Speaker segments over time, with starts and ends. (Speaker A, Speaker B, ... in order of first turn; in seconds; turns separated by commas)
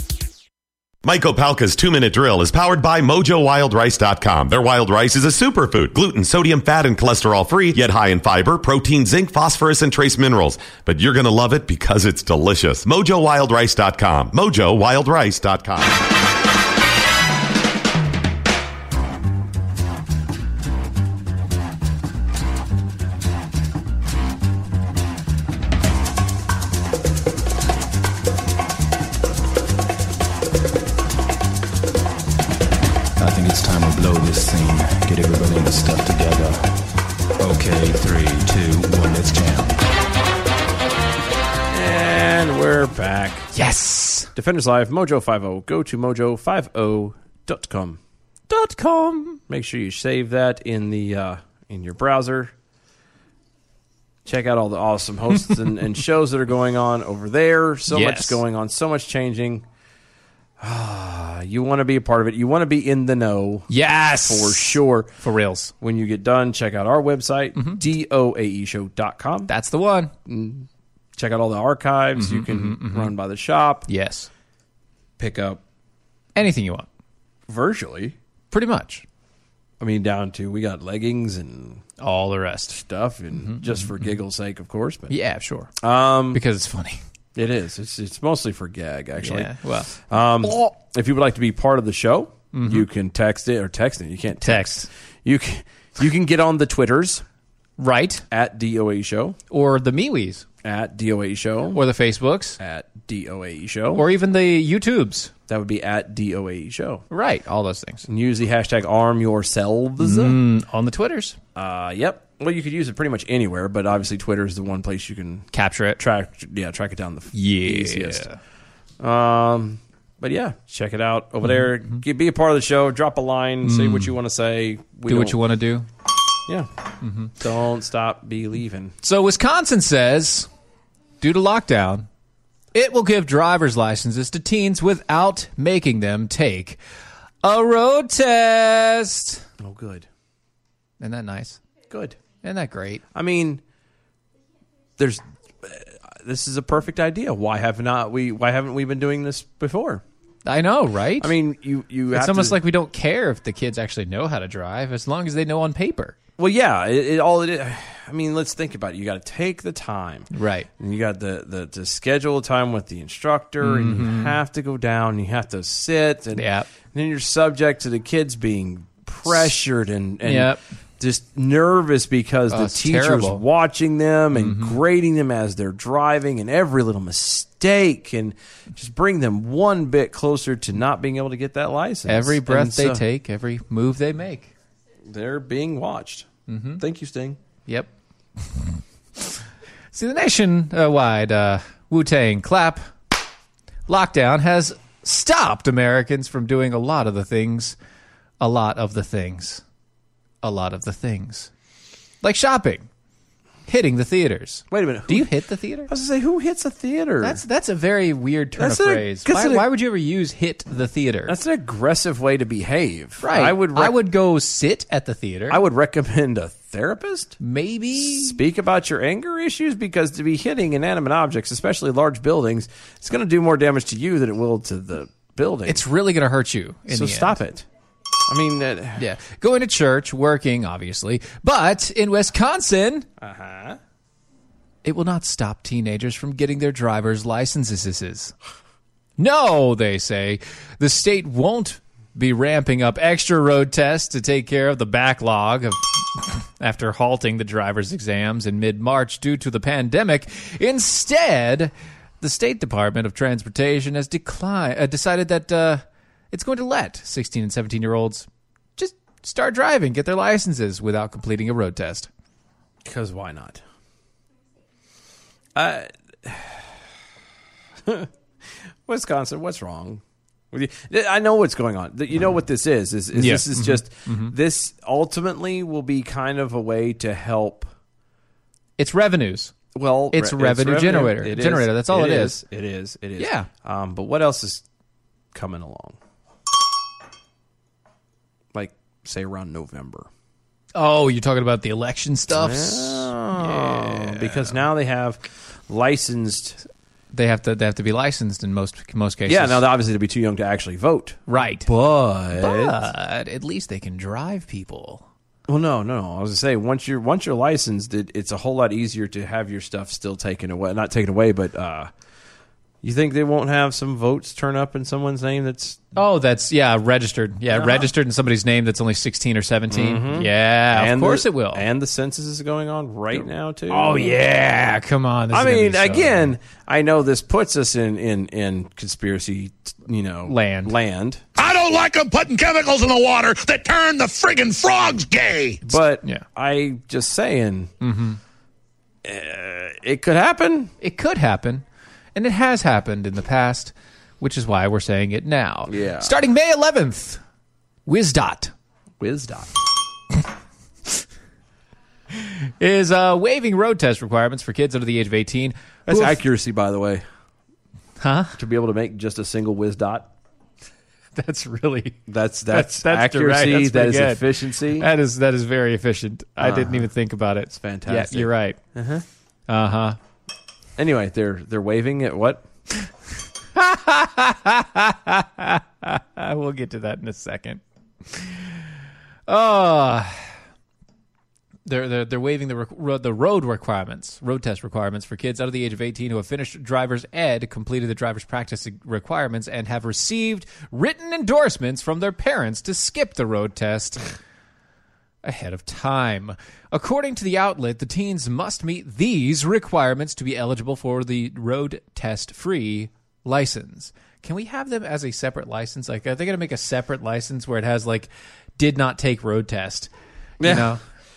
Speaker A: 1.0-16.0, Speaker B: 33.2-36.8, Speaker B: 37.4-39.8, Speaker C: 41.7-43.5, Speaker D: 43.5-44.3, Speaker C: 44.3-48.0, Speaker D: 48.5-49.4, Speaker C: 49.5-52.5, Speaker C: 54.2-59.6, Speaker D: 57.9-58.4, Speaker C: 60.6-65.1, Speaker D: 63.7-65.7, Speaker C: 65.8-69.5, Speaker D: 67.5-67.8, Speaker D: 69.5-70.1, Speaker C: 70.3-73.9, Speaker D: 72.2-73.1, Speaker D: 73.9-74.3, Speaker C: 75.2-75.6, Speaker D: 76.3-76.9, Speaker C: 77.5-78.2, Speaker D: 78.5-79.0, Speaker C: 79.8-81.8, Speaker D: 82.0-82.8, Speaker C: 82.7-85.1, Speaker D: 83.3-84.0, Speaker D: 85.1-85.7, Speaker C: 85.8-86.4, Speaker D: 86.3-87.0, Speaker C: 87.3-97.2, Speaker D: 89.2-89.9, Speaker D: 92.5-92.9, Speaker D: 94.4-94.9, Speaker D: 97.8-98.2, Speaker C: 98.3-99.4, Speaker D: 99.5-100.4, Speaker C: 100.6-101.8, Speaker D: 101.7-102.6, Speaker C: 102.6-104.0, Speaker D: 103.9-105.3, Speaker C: 105.5-107.0, Speaker D: 107.1-108.0, Speaker C: 108.0-110.4, Speaker D: 110.0-111.4, Speaker C: 111.5-115.5, Speaker D: 115.5-116.0, Speaker C: 116.0-118.3, Speaker D: 117.3-118.4, Speaker C: 119.0-125.4, Speaker D: 121.5-122.0, Speaker D: 123.6-124.2, Speaker D: 125.1-125.9, Speaker D: 127.0-127.3, Speaker C: 127.4-128.9, Speaker D: 129.0-130.5, Speaker D: 131.2-132.1, Speaker D: 132.7-136.8, Speaker D: 137.4-139.4, Speaker C: 139.6-140.1, Speaker D: 141.0-141.6, Speaker C: 141.9-142.2, Speaker D: 142.4-143.0, Speaker C: 143.1-143.6, Speaker C: 145.0-150.0, Speaker D: 150.4-151.3, Speaker C: 151.2-152.6, Speaker D: 152.1-156.1, Speaker C: 156.4-183.0, Speaker D: 160.3-160.7, Speaker D: 163.6-164.4, Speaker D: 166.3-166.7, Speaker D: 170.2-170.6, Speaker D: 172.5-173.4, Speaker D: 174.3-174.8, Speaker D: 182.1-184.5, Speaker C: 185.1-186.3, Speaker D: 186.5-186.8, Speaker C: 186.8-187.4, Speaker D: 189.9-192.8, Speaker D: 193.9-197.8, Speaker D: 198.4-199.6, Speaker D: 200.4-201.5, Speaker D: 202.2-202.9, Speaker D: 203.7-205.9, Speaker C: 204.7-205.3, Speaker C: 205.9-207.4, Speaker D: 207.2-211.4, Speaker C: 208.6-209.7, Speaker C: 211.3-214.0, Speaker D: 213.2-215.6, Speaker C: 215.5-217.4, Speaker D: 217.4-218.4, Speaker C: 217.9-225.8, Speaker D: 225.7-227.4, Speaker C: 226.9-227.7, Speaker C: 228.3-229.1, Speaker D: 229.0-233.1, Speaker C: 233.2-233.8, Speaker D: 234.8-238.3, Speaker D: 239.2-262.1, Speaker C: 262.8-263.6, Speaker C: 265.5-266.8, Speaker C: 268.9-277.7, Speaker D: 273.1-274.3, Speaker D: 278.8-279.5, Speaker C: 279.7-284.6, Speaker D: 280.1-282.4, Speaker D: 283.2-283.5, Speaker C: 285.3-286.0, Speaker C: 288.5-290.1, Speaker D: 290.7-294.6, Speaker C: 292.3-296.6, Speaker D: 297.1-299.6, Speaker C: 299.2-302.9, Speaker D: 301.3-301.7, Speaker D: 302.3-305.0, Speaker C: 305.5-311.9, Speaker C: 312.8-315.8, Speaker D: 315.9-321.6, Speaker C: 317.5-317.9, Speaker C: 319.7-324.2, Speaker D: 323.1-326.3, Speaker C: 325.3-331.2, Speaker D: 330.3-330.7, Speaker E: 331.4-335.6, Speaker C: 335.6-337.7, Speaker D: 337.8-338.2, Speaker C: 339.0-340.7, Speaker D: 340.8-341.6, Speaker D: 342.1-347.2, Speaker C: 345.7-346.2, Speaker D: 347.9-348.5, Speaker C: 349.0-349.5, Speaker D: 352.1-356.2, Speaker C: 355.9-357.0, Speaker D: 358.0-358.4, Speaker C: 358.4-360.1, Speaker D: 361.1-368.6, Speaker C: 362.1-364.9, Speaker C: 366.4-366.9, Speaker C: 367.5-369.0, Speaker D: 369.5-370.0, Speaker C: 370.8-372.5, Speaker D: 373.5-378.5, Speaker D: 379.3-380.2, Speaker D: 381.6-394.0, Speaker D: 395.2-409.9, Speaker C: 410.4-410.8, Speaker D: 410.4-410.8